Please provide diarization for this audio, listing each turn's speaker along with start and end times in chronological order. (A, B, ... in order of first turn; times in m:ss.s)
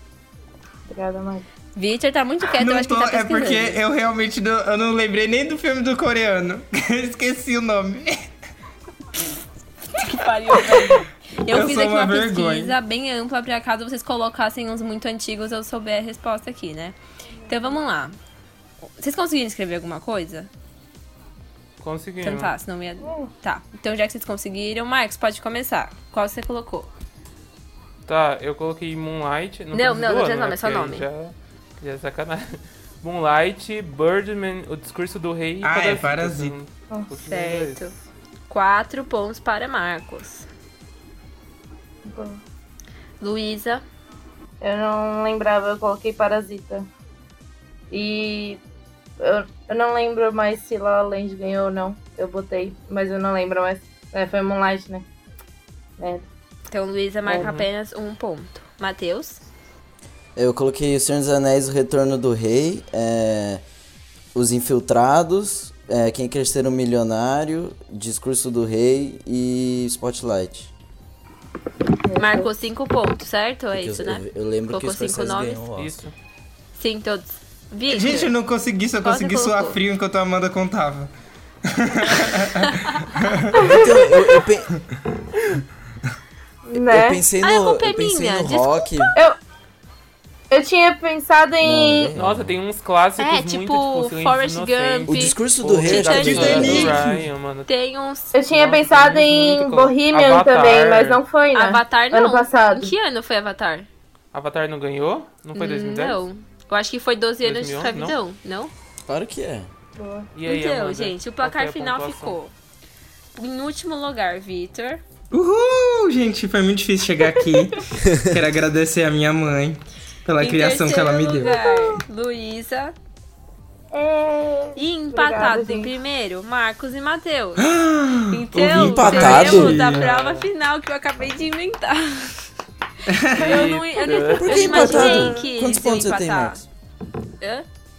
0:00.9-0:01.5 A
0:01.8-0:03.8 B
0:02.5-0:08.2 C
0:10.0-0:17.0 B
0:10.5-0:11.0 C
0:11.5-0:12.8 C
0:17.5-0:17.8 A
0:17.5-0:18.2 B
0:19.0-0:20.5 B
0:21.8-0:22.5 D
0:22.2-0:26.9 B
0:23.0-0:23.3 A
0:28.1-0:37.9 D
0:29.7-0:31.1 B
0:35.6-0:36.6 C
0:37.2-0:37.9 B
0:38.5-0:40.5 B
0:42.0-0:42.4 A
0:43.2-0:43.8 B
0:44.6-0:46.9 A
0:47.9-0:48.6 A
0:49.2-0:55.1 A
0:56.0-0:56.2 A
0:56.7-0:59.4 B
0:57.3-0:57.5 A
0:57.4-0:57.7 D
1:00.4-1:03.6 E
1:04.3-1:10.7 E
1:12.1-1:12.6 A
1:12.2-1:15.6 B
1:13.7-1:16.0 E
1:15.8-1:16.1 D
1:16.8-1:18.3 B
1:17.9-1:21.1 C
1:19.0-1:19.8 B
1:21.7-1:23.7 C
1:22.6-1:23.0 B
1:23.6-1:24.4 A
1:23.6-1:24.7 E
1:26.7-1:27.2 A
1:26.7-1:29.1 E
1:27.4-1:28.9 B
1:30.5-1:32.1 A
1:31.6-1:32.6 E
1:32.2-1:37.7 D
1:33.2-1:36.9 B
1:35.1-1:37.0 E
1:36.1-1:37.2 C
1:37.7-1:38.4 B
1:38.3-1:42.9 A
1:38.5-1:41.2 D
1:41.5-1:43.9 B
1:44.3-1:46.2 D
1:45.6-1:48.7 B
1:47.4-1:48.2 D
1:49.1-1:49.7 E
1:50.0-1:50.3 A
1:50.3-1:52.4 D
1:50.4-1:52.5 B
1:53.4-1:55.0 B
1:55.3-2:01.6 C
2:00.4-2:03.0 B
2:03.9-2:05.9 A
2:04.8-2:07.7 B
2:07.6-2:10.1 C
2:08.3-2:12.4 B
2:08.5-2:09.8 E
2:09.1-2:10.5 D
2:13.1-2:13.6 C
2:13.3-2:16.6 B
2:13.4-2:15.3 D
2:14.3-2:16.7 E
2:15.1-2:15.4 A
2:17.4-2:17.7 B